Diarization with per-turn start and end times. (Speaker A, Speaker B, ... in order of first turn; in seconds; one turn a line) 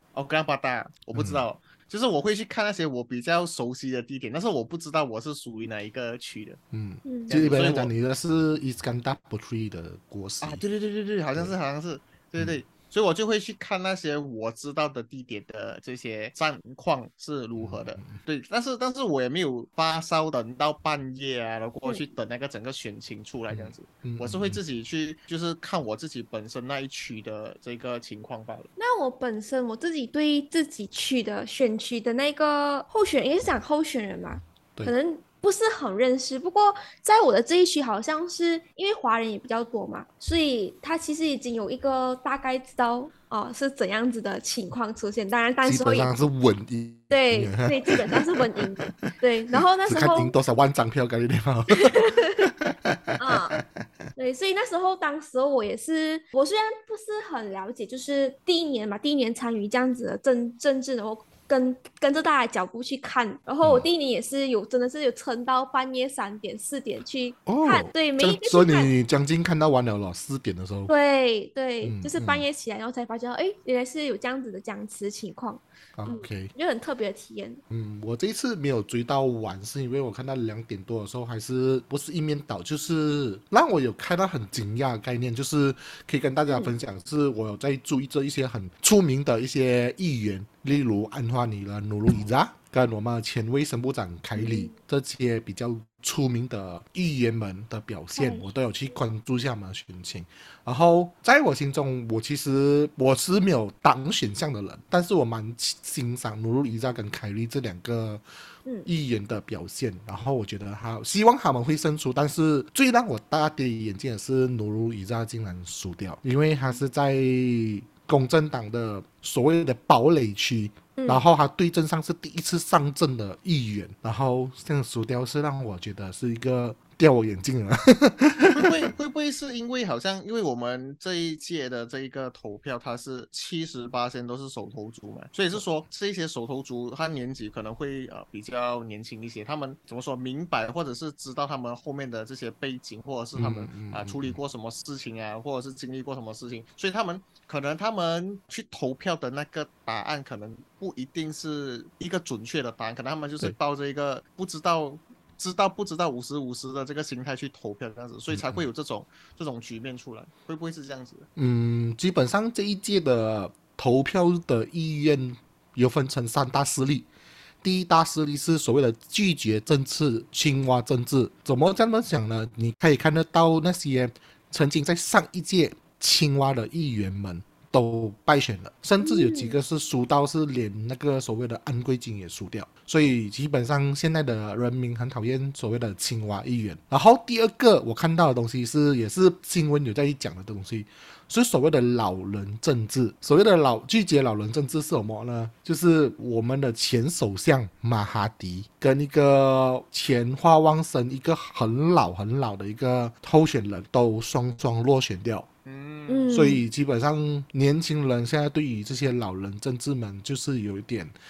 Speaker A: 0.1-6.6
Speaker B: 1.1-1.4
Speaker B: 6.7-10.6
Speaker C: 7.0-7.3
Speaker A: 7.3-7.9
Speaker A: 10.4-28.7
Speaker B: 17.6-18.2
Speaker B: 23.5-24.6
Speaker C: 28.8-46.1
Speaker B: 45.6-48.9
Speaker C: 47.1-50.3
Speaker B: 49.9-53.6
Speaker C: 51.8-52.5
Speaker C: 53.2-53.6
Speaker C: 54.2-68.9
Speaker B: 63.6-63.9
Speaker B: 67.5-70.9
Speaker C: 70.9-77.6
Speaker B: 71.8-72.5
Speaker B: 76.0-76.5
Speaker B: 77.7-108.2
Speaker C: 94.3-94.7
Speaker C: 98.2-98.5
Speaker B: 108.9-128.9
Speaker C: 121.0-121.2
Speaker A: 128.5-161.3
Speaker B: 143.4-144.4
Speaker B: 158.3-158.7
Speaker B: 161.4-167.1
Speaker B: 167.6-205.5
Speaker C: 179.0-179.6
Speaker A: 205.7-206.3
Speaker C: 206.1-206.6
Speaker B: 206.3-211.2